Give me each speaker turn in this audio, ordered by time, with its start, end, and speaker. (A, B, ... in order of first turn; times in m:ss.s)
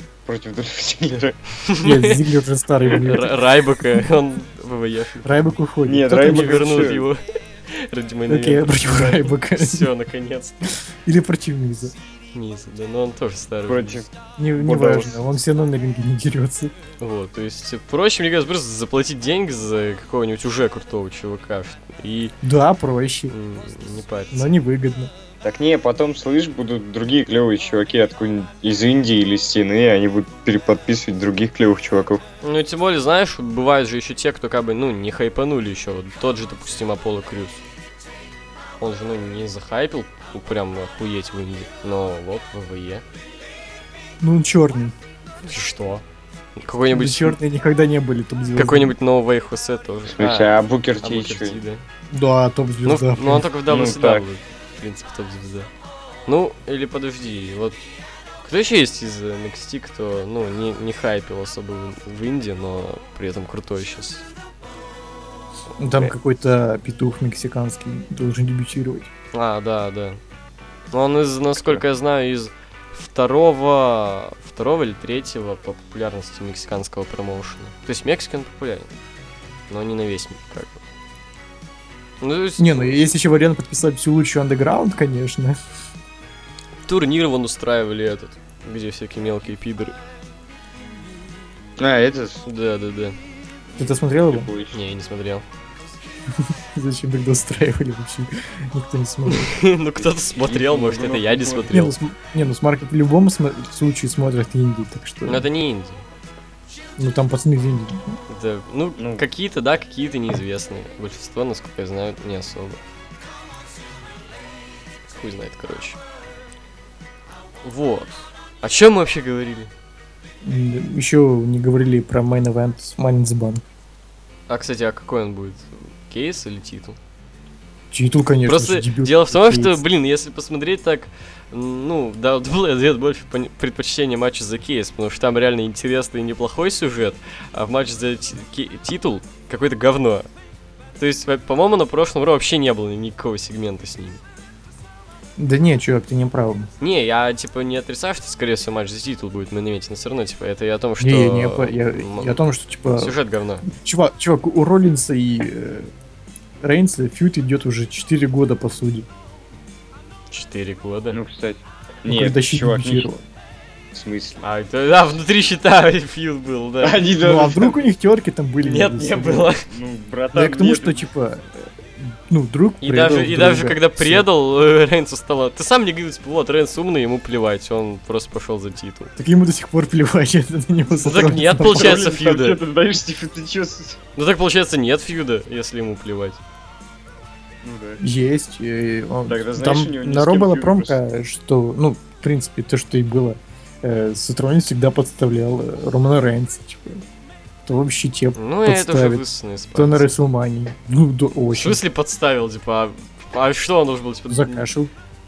0:00.3-0:01.4 A
0:01.6-0:02.3 B
0:01.8-0:04.1 C
0:02.8-0:05.5 B
0:05.2-0:06.9 C
0:05.9-0:07.1 A
0:06.1-0:10.6 B
0:08.3-0:09.9 C
0:10.8-0:12.0 C
0:12.3-0:14.0 B
0:13.7-0:15.2 A
0:14.4-0:16.7 C
0:17.0-0:22.4 B
0:22.4-0:23.3 C
0:23.3-0:24.5 B
0:24.3-0:25.1 C
0:25.4-0:32.2 A
0:32.4-0:37.6 B
0:38.8-0:43.0 B
0:44.2-0:45.0 C
0:45.4-0:46.0 B
0:46.6-0:47.4 B
0:46.9-0:49.0 C
0:48.6-0:51.8 B
0:50.1-0:51.6 A
0:52.1-0:53.5 C
0:52.8-0:55.7 B
0:53.7-0:54.2 A
0:56.3-0:57.8 B
0:58.4-1:04.2 B
1:05.8-1:09.1 C
1:09.3-1:10.2 B
1:10.9-1:18.9 B
1:11.6-1:11.8 A
1:19.7-1:20.8 B
1:22.2-1:23.0 B
1:22.6-1:25.6 C
1:26.9-1:30.0 B
1:31.8-1:32.4 A
1:32.4-1:33.2 B
1:33.8-1:34.5 C
1:34.2-1:34.8 A
1:34.7-1:35.4 B
1:36.4-1:39.6 C
1:39.3-1:42.0 B
1:40.0-1:41.8 A
1:41.7-1:45.5 C
1:45.2-1:46.1 B
1:47.0-1:48.2 C
1:48.3-1:52.8 B
1:49.0-1:49.2 A
1:55.1-1:56.0 B
1:57.6-1:59.7 B
2:00.4-2:03.6 C
2:04.5-2:07.0 B
2:07.9-2:09.8 C
2:08.4-2:20.3 B
2:21.0-2:24.2 B
2:25.4-2:26.7 C
2:26.8-2:32.4 B
2:31.0-2:35.9 C
2:32.9-2:33.7 B
2:36.6-2:39.1 C
2:40.3-2:41.2 B
2:41.1-2:43.1 A
2:42.1-2:43.2 C
2:43.9-2:44.4 A
2:44.4-2:47.0 B
2:46.8-2:47.9 A
2:47.2-2:49.5 C
2:48.6-2:49.7 B
2:49.6-2:51.1 A
2:50.3-2:51.4 C
2:52.0-2:54.3 C
2:52.8-2:59.1 B
2:59.2-3:02.0 C
3:01.0-3:02.6 B
3:01.6-3:04.0 A
3:04.2-3:06.4 B
3:07.6-3:08.0 A
3:08.0-3:17.0 C
3:09.3-3:11.0 A
3:17.7-3:21.8 C
3:18.4-3:20.2 B
3:21.5-3:24.7 B
3:24.3-3:24.9 C